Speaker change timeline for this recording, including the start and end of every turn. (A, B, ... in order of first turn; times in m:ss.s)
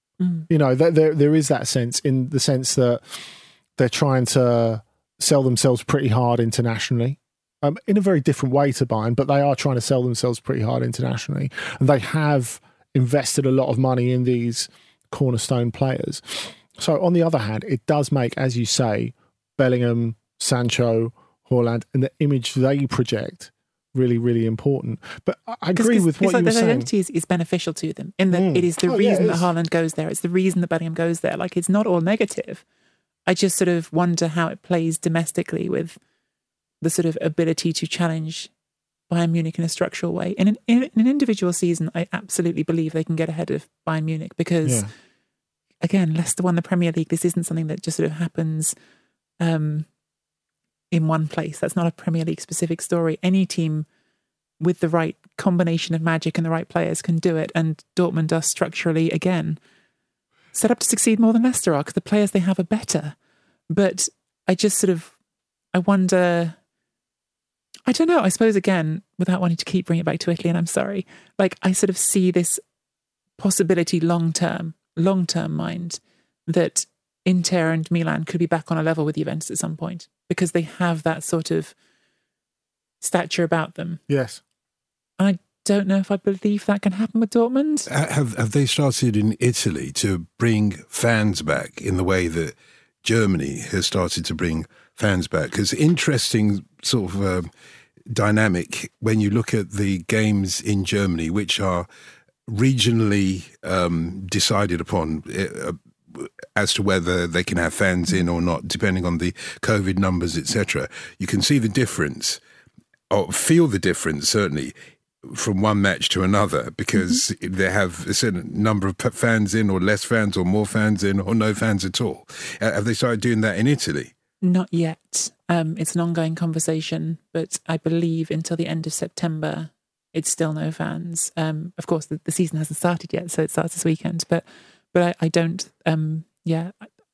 0:00.2-0:00.5 A
0:00.5-0:26.9 B
0:25.8-0:32.6 A
0:28.3-0:29.5 B
0:33.3-0:36.0 A
0:36.8-0:38.5 A
0:39.1-0:44.9 A
0:44.6-0:44.9 B
0:45.8-0:48.7 A
0:49.4-0:49.9 A
0:50.9-0:53.9 A
0:54.6-0:59.6 A
1:00.5-1:03.2 A
1:03.7-1:05.2 A
1:05.7-1:06.6 A
1:07.9-1:12.6 A
1:13.4-1:21.7 A
1:23.0-1:24.0 A
1:24.1-1:24.4 B
1:25.2-1:27.9 A
1:27.9-1:37.5 C
1:38.1-1:41.9 C
1:42.5-1:52.4 C
1:53.1-1:54.8 C
1:55.3-2:04.1 C
2:04.4-2:16.9 A